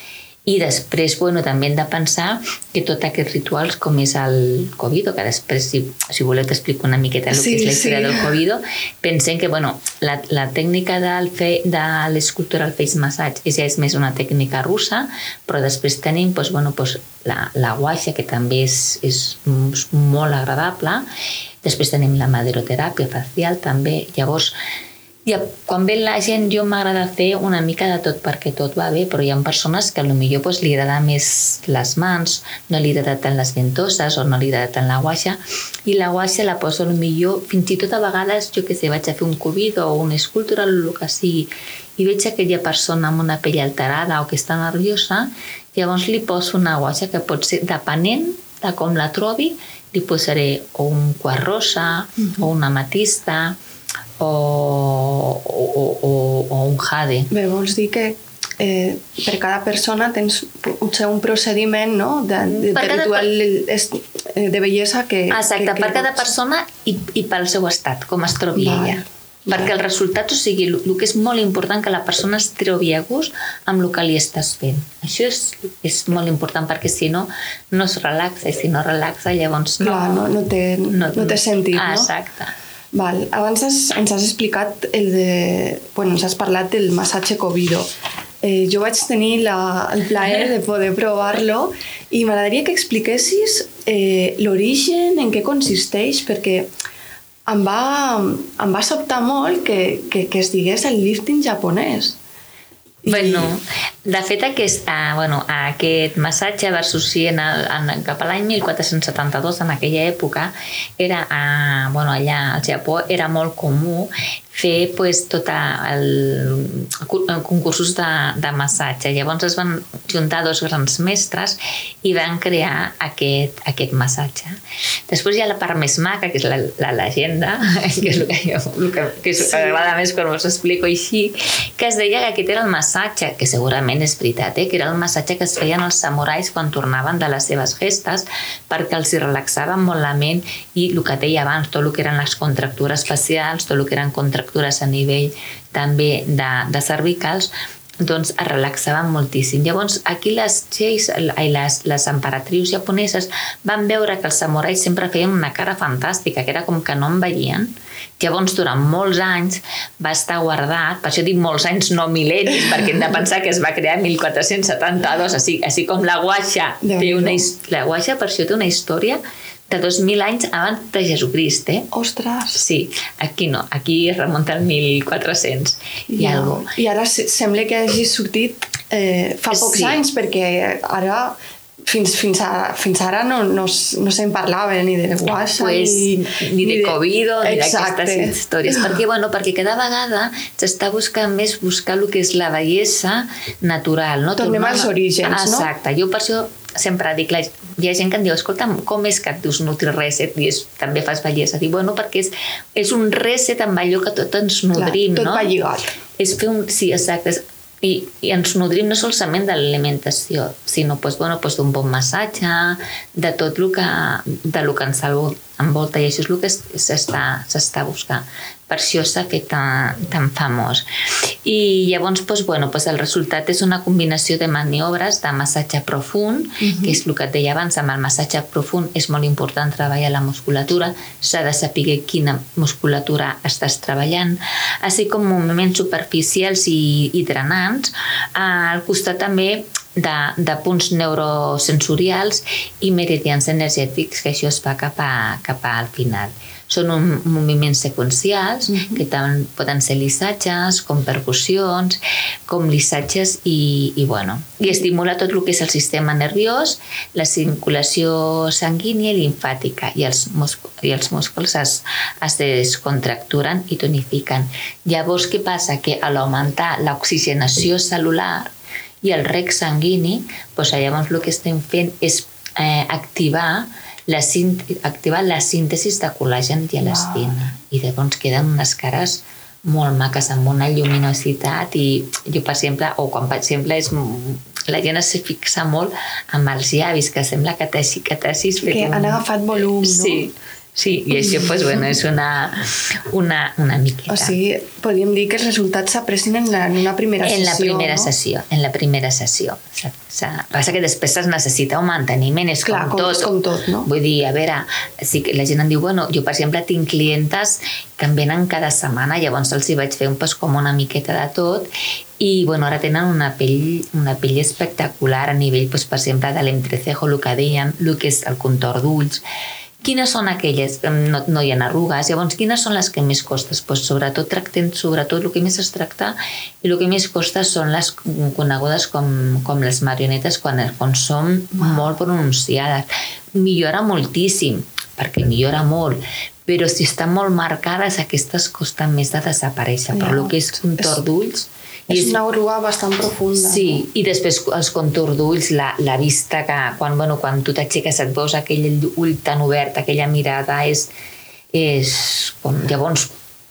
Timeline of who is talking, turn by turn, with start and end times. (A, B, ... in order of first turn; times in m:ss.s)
0:00.4-0:21.0 A
0:07.3-0:08.3 B
0:21.6-0:24.5 A
0:25.2-0:53.6 A
0:54.2-0:57.3 A
0:57.3-1:06.3 B
1:02.5-1:03.3 A
1:05.3-1:20.3 A
1:08.5-1:09.7 B
1:19.8-1:22.1 B
1:20.9-1:22.5 A
1:22.9-1:27.9 B
1:28.4-1:36.7 B
1:37.5-1:42.2 B
1:43.0-1:43.5 B
1:43.1-2:27.5 A
2:28.0-2:51.9 A
2:46.8-2:47.4 B
2:51.9-2:52.6 B
2:52.5-2:56.7 A
2:56.1-3:01.4 B
2:59.5-3:00.0 A
3:01.9-3:08.8 B
3:05.6-3:25.5 A
3:14.4-3:15.7 B
3:24.7-3:25.9 B
3:26.2-3:40.8 A
3:41.4-4:28.5 A
3:46.6-3:47.0 B
4:08.7-4:09.0 B
4:29.0-4:49.2 A
4:36.8-4:37.4 B
4:48.6-4:50.3 B
4:49.8-4:54.4 A
4:54.1-4:58.1 B
4:57.2-5:03.3 A
5:02.6-5:03.9 B
5:03.8-5:19.2 A
5:19.8-5:42.2 A
5:39.9-5:41.0 B
5:41.9-5:43.8 B
5:43.4-5:50.9 A
5:51.5-5:53.1 A